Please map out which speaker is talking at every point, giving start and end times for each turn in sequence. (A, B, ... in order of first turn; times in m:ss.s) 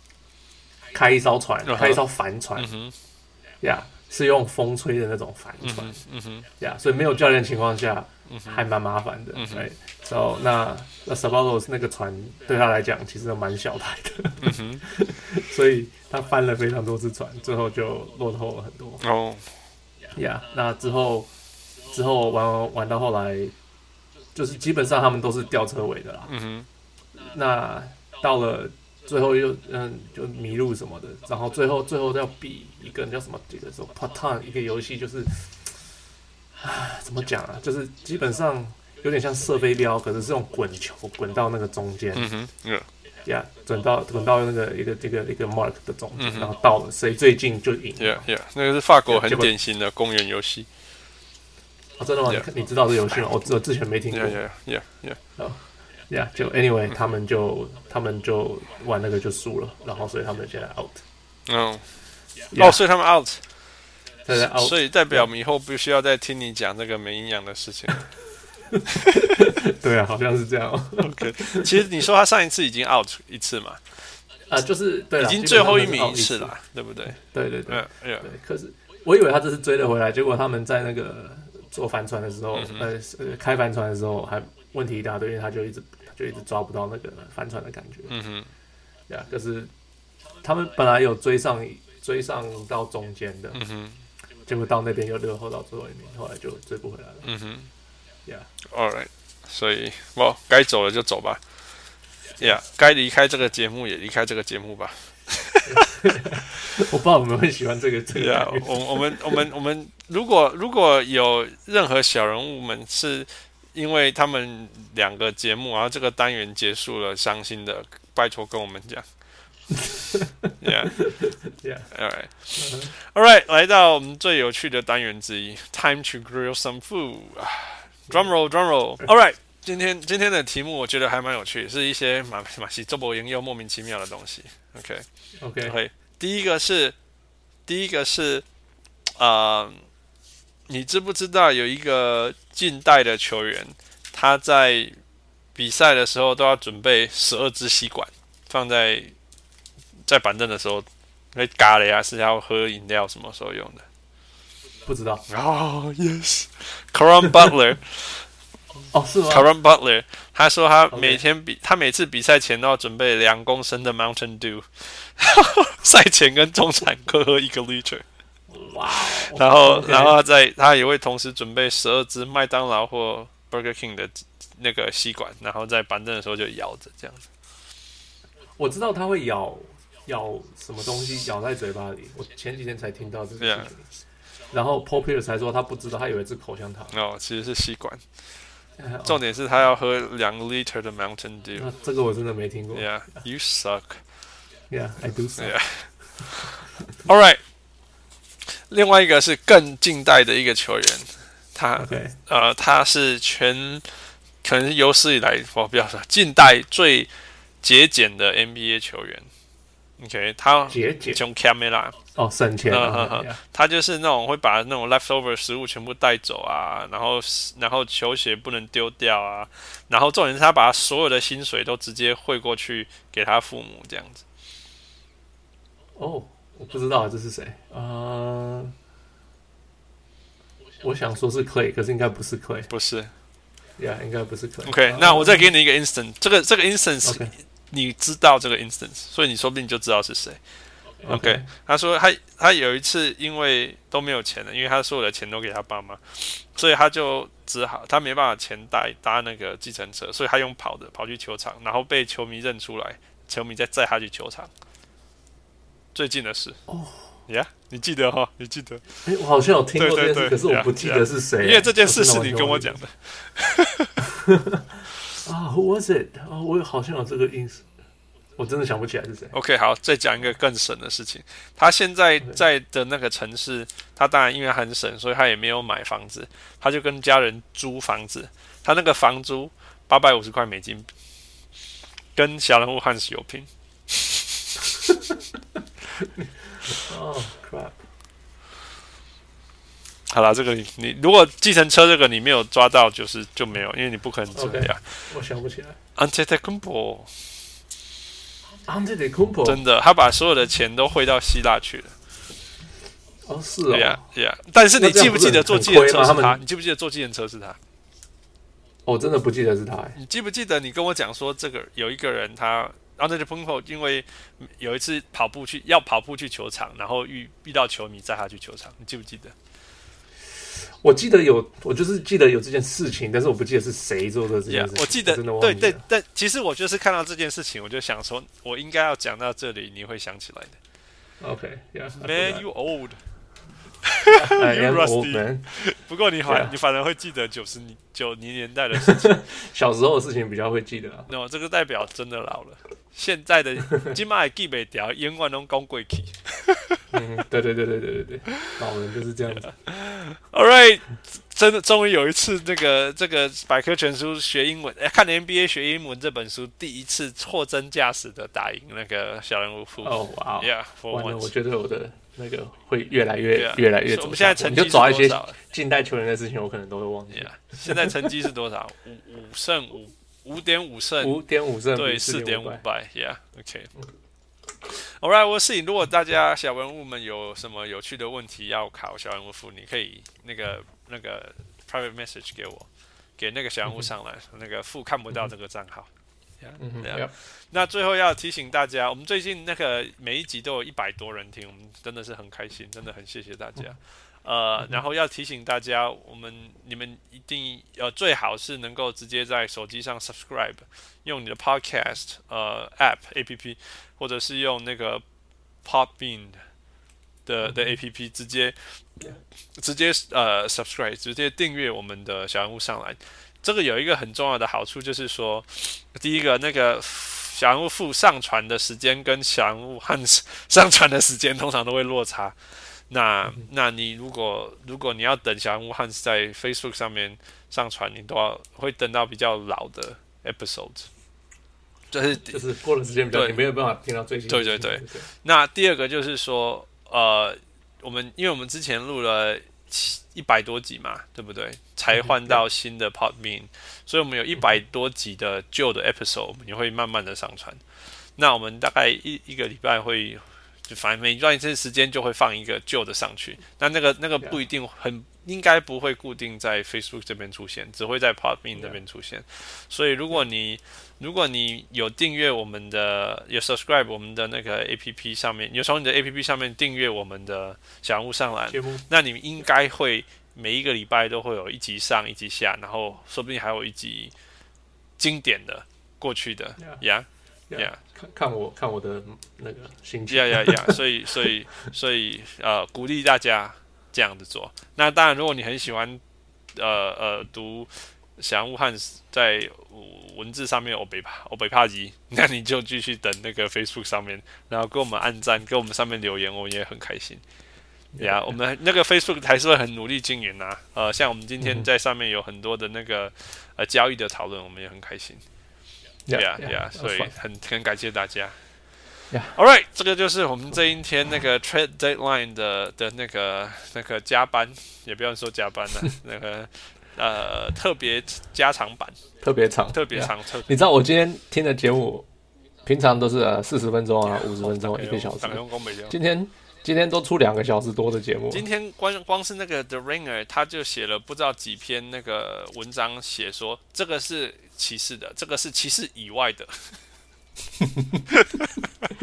0:00.9-0:02.7 A
0:01.6-0:02.0 B
0:02.6-0:02.9 B
0:03.6-0:06.0 A
0:05.6-0:06.5 B
0:06.6-0:19.0 A
0:08.3-0:08.6 B
0:09.3-0:09.7 B
0:14.4-0:14.8 B
0:19.0-0:19.4 B
0:20.1-0:21.3 A
0:21.8-0:23.5 A
0:24.3-0:26.3 A
0:26.3-0:26.7 B
0:27.1-0:35.7 A
0:36.6-0:42.3 A
0:42.1-0:42.9 B
0:43.2-0:48.2 A
0:46.2-0:46.5 B
0:48.0-0:50.7 B
0:49.1-0:49.5 A
0:52.0-0:54.4 A
0:54.1-0:55.2 B
0:55.4-1:01.0 A
1:01.5-1:01.8 B
1:02.5-1:02.8 A
1:02.5-1:03.4 B
1:04.2-1:05.3 A
1:04.3-1:08.0 B
1:08.7-1:11.8 A
1:09.0-1:09.3 B
1:11.0-1:13.8 B
1:14.5-1:16.5 A
1:15.2-1:18.3 B
1:17.1-1:28.1 A
1:22.5-1:22.9 B
1:28.1-1:28.5 B
1:29.1-1:29.7 A
1:30.4-1:33.6 A
1:33.5-1:34.0 B
1:34.4-1:37.3 A
1:37.2-1:37.7 B
1:38.6-1:41.4 B
1:42.4-1:45.9 B
1:45.6-1:49.4 A
1:48.1-1:59.0 B
2:00.1-2:01.9 A
2:00.6-2:01.1 B
2:01.9-2:15.0 B
2:02.6-2:02.9 A
2:15.4-2:15.8 A
2:15.6-2:17.0 B
2:17.7-2:18.4 B
2:19.2-2:19.8 B
2:20.7-2:25.0 B
2:25.5-2:29.1 B
2:30.0-2:33.8 B
2:34.8-2:35.2 A
2:35.3-2:38.3 B
2:38.9-2:39.5 A
2:39.3-2:48.0 B
2:40.9-2:41.2 A
2:48.5-2:50.2 A
2:49.1-2:57.3 B
2:58.6-3:03.9 A
3:03.4-3:03.7 B
3:04.5-3:06.9 A
3:06.9-3:08.0 B
3:08.8-3:09.2 A
3:09.0-3:11.7 B
3:11.6-3:13.2 A
3:12.7-3:14.0 B
3:14.7-3:15.6 A
3:15.4-3:17.4 B
3:18.4-3:27.1 B
3:21.8-3:22.2 A
3:27.6-3:29.3 B
3:30.0-3:32.0 B
3:30.7-3:31.2 A
3:32.2-3:33.4 A
3:32.7-3:44.2 B
3:46.0-3:48.7 A
3:50.8-3:52.7 A
3:52.7-3:53.1 B
3:53.8-3:55.5 A
3:54.6-4:00.4 B
3:57.0-3:57.3 A
4:01.0-4:01.5 A
4:01.1-4:14.5 B
4:15.9-4:16.6 B
4:16.7-4:17.2 A
4:17.3-4:19.0 B
4:19.0-4:22.8 A
4:19.8-4:24.0 B
4:24.0-4:27.7 A
4:28.4-4:29.3 A
4:29.3-4:40.9 B
4:42.1-4:44.6 B
4:46.2-4:47.7 A
4:50.1-4:55.1 B
4:54.3-4:55.8 A
4:56.0-4:57.2 B
4:58.6-4:59.6 A
4:59.4-5:01.9 B
5:03.2-5:04.0 A
5:03.7-5:07.6 B
5:04.8-5:06.4 A
5:08.8-5:10.0 A
5:10.0-5:19.3 B
5:20.6-5:25.8 A
5:24.4-5:30.6 B
5:31.2-5:32.4 A
5:32.0-5:33.0 B
5:33.8-5:39.2 B
5:34.1-5:35.5 A
5:36.2-5:36.5 A
5:38.8-5:41.1 A
5:41.1-5:46.8 B
5:46.9-5:49.5 A
5:49.5-6:01.3 B
5:59.8-6:08.1 A
6:03.3-6:05.4 B
6:07.1-6:11.2 B
6:11.0-6:12.6 A
6:11.7-6:13.7 B
6:14.6-6:45.0 B
6:26.6-6:27.1 A
6:45.6-6:46.4 B
6:47.2-7:10.9 B
7:11.9-7:12.4 B
7:12.3-7:15.1 A
7:13.1-7:13.4 B
7:14.3-7:27.6 B
7:21.9-7:22.4 A
7:28.2-7:54.1 B
7:48.5-7:48.8 A
7:55.0-7:57.8 B
7:57.5-8:00.8 A
8:00.1-8:06.0 B
8:06.5-8:17.2 B
8:17.9-8:18.3 A
8:18.0-8:25.2 B
8:26.1-8:27.1 A
8:26.1-8:28.4 B
8:29.3-8:39.0 B
8:39.2-8:42.0 A
8:39.7-8:40.6 B
8:42.6-8:48.4 A
8:44.0-8:46.0 B
8:48.3-8:56.8 B
8:57.6-8:58.0 A
8:58.1-8:58.5 B